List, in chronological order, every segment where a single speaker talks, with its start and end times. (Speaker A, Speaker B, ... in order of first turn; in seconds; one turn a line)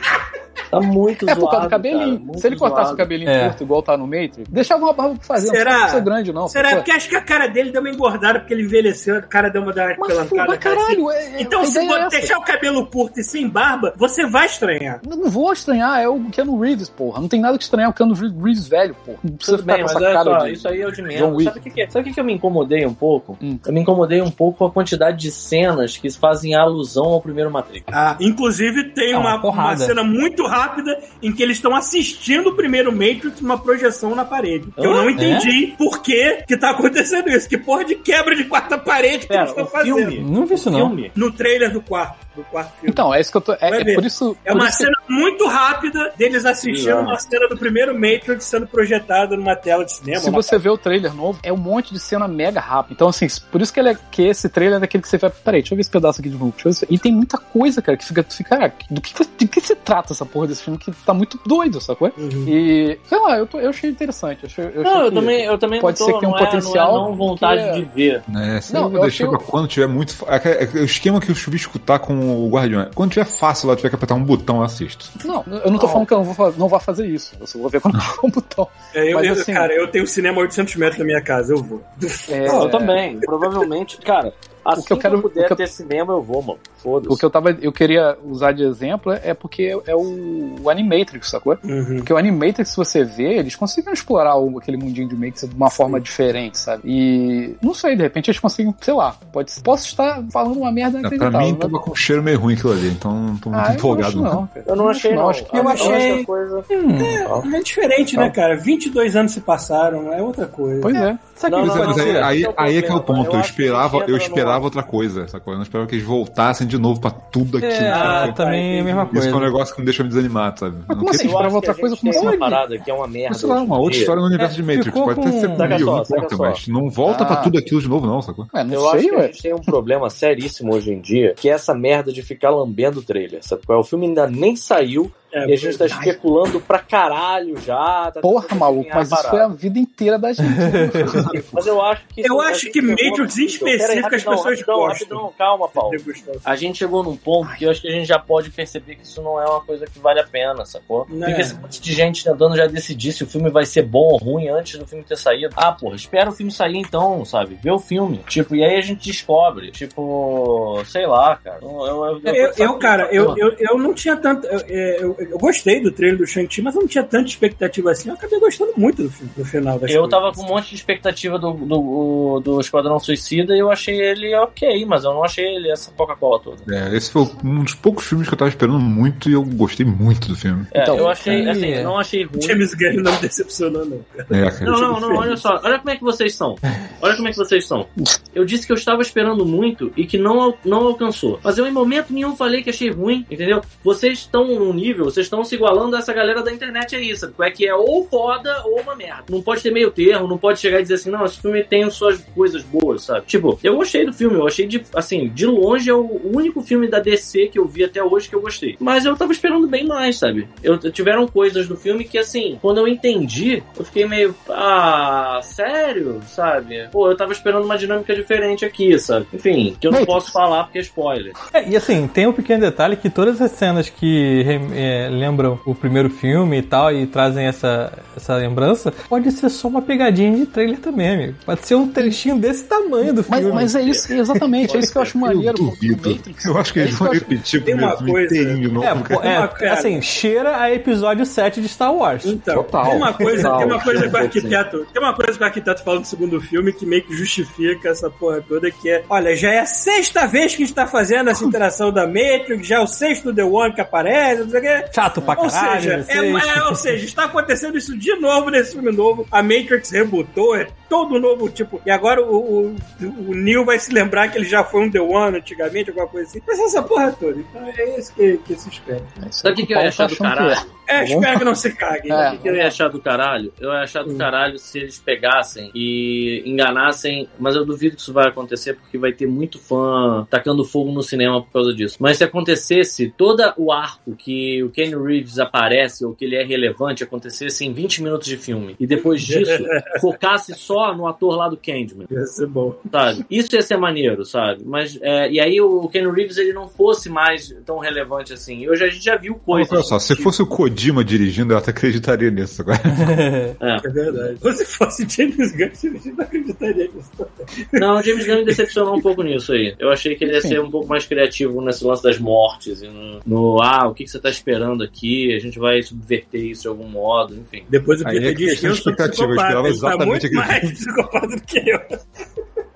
Speaker A: 0.7-3.1
Speaker B: 1.3-6.9
Speaker C: 3.3-3.6
Speaker D: 5.4-15.0
Speaker B: 10.0-12.3
Speaker B: 15.0-21.6
Speaker A: 19.4-27.9
Speaker D: 27.9-40.2
Speaker C: 29.1-29.9
Speaker A: 34.8-35.1
Speaker C: 35.2-35.5
Speaker A: 39.3-41.1
Speaker C: 40.2-41.0
Speaker D: 41.1-43.1
Speaker B: 42.9-44.9
Speaker D: 43.7-50.6
Speaker A: 46.6-47.2
Speaker B: 50.1-67.9
Speaker D: 62.2-62.5
Speaker A: 64.8-68.2
Speaker E: 68.3-75.2
Speaker B: 68.7-69.4
Speaker B: 75.2-79.7
Speaker A: 75.8-76.0
Speaker D: 78.9-83.5
Speaker B: 82.3-83.0
Speaker A: 82.5-87.2
Speaker B: 84.7-85.6
Speaker B: 87.1-101.8
Speaker D: 91.7-92.1
Speaker E: 101.0-104.5
Speaker B: 103.5-106.2
Speaker A: 104.7-107.5
Speaker D: 105.5-106.3
Speaker C: 106.7-107.2
Speaker D: 106.9-111.0
Speaker B: 110.8-111.2
Speaker C: 111.3-112.3
Speaker A: 111.4-114.7
Speaker E: 111.6-118.4
Speaker C: 117.6-119.5
Speaker A: 117.9-119.2
Speaker E: 119.1-121.5
Speaker B: 120.9-122.6
Speaker A: 121.1-124.2
Speaker E: 123.3-128.5
Speaker C: 124.4-125.8
Speaker A: 125.6-126.6
Speaker B: 127.1-127.5
Speaker B: 128.5-129.3
Speaker A: 128.7-139.5
Speaker D: 135.3-135.9
Speaker B: 135.9-136.2
Speaker B: 138.2-141.4
Speaker C: 140.4-141.1
Speaker E: 141.1-141.6
Speaker A: 141.3-163.4
Speaker D: 142.2-145.2
Speaker D: 145.8-146.4
Speaker D: 151.1-151.6
Speaker D: 162.3-170.4
Speaker A: 169.9-176.7
Speaker E: 176.7-180.7
Speaker A: 180.7-182.6
Speaker B: 180.8-181.5
Speaker C: 181.2-181.9
Speaker D: 182.4-185.4
Speaker E: 184.3-185.3
Speaker A: 184.6-221.4
Speaker B: 219.9-220.4
Speaker C: 221.5-233.7
Speaker B: 233.3-237.3
Speaker A: 233.4-234.1
Speaker A: 234.6-235.2
Speaker E: 235.1-239.4
Speaker D: 237.6-240.0
Speaker C: 238.8-242.3
Speaker D: 242.2-269.2
Speaker E: 242.5-244.3
Speaker A: 243.2-244.6
Speaker C: 254.9-256.9
Speaker B: 269.2-271.4
Speaker A: 269.4-270.7
Speaker D: 270.9-272.7
Speaker B: 272.1-272.7
Speaker A: 272.4-292.1
Speaker D: 289.3-289.9
Speaker D: 292.1-292.9
Speaker A: 292.9-299.9
Speaker E: 299.5-303.2
Speaker C: 302.9-303.5
Speaker A: 303.6-304.4
Speaker D: 303.8-308.6
Speaker A: 307.8-317.7
Speaker B: 310.2-310.6
Speaker D: 317.7-322.0
Speaker E: 318.0-320.8